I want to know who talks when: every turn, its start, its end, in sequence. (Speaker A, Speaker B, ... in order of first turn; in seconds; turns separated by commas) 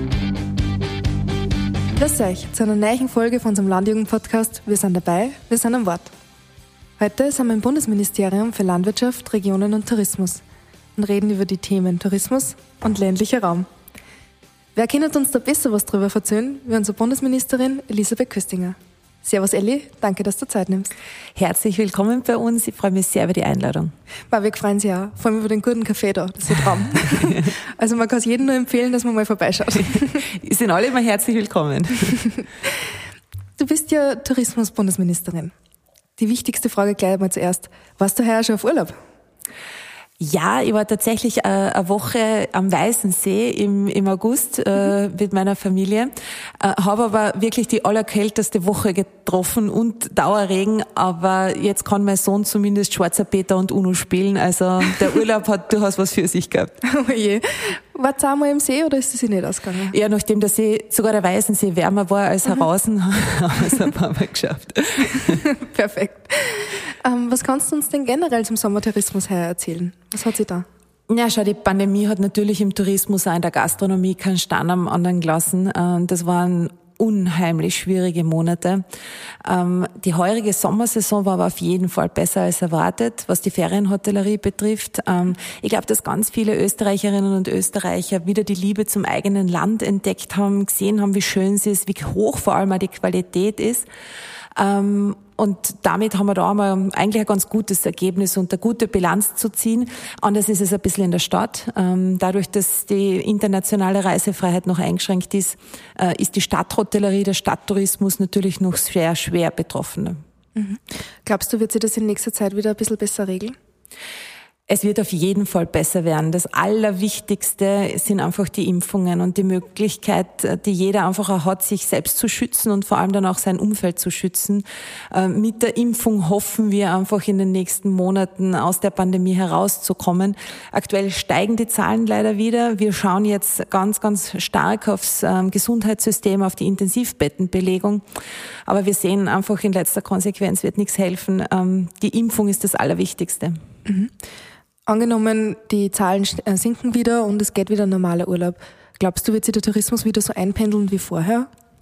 Speaker A: 1.9-6.1, Speaker A: 7.0-10.4, Speaker A: 10.9-13.7, Speaker A: 14.8-20.9, Speaker B: 21.4-23.9, Speaker A: 24.3-30.2, Speaker B: 27.2-27.5, Speaker B: 30.2-32.2, Speaker A: 33.6-35.5, Speaker A: 36.2-39.0, Speaker B: 40.2-56.8, Speaker A: 56.8-59.9, Speaker B: 59.9-65.4, Speaker A: 65.1-70.7, Speaker B: 71.1-78.8, Speaker B: 79.4-93.9, Speaker B: 94.5-110.2, Speaker A: 110.5-113.5, Speaker B: 114.7-138.0, Speaker B: 138.7-143.6, Speaker A: 143.8-144.1, Speaker A: 144.9-151.5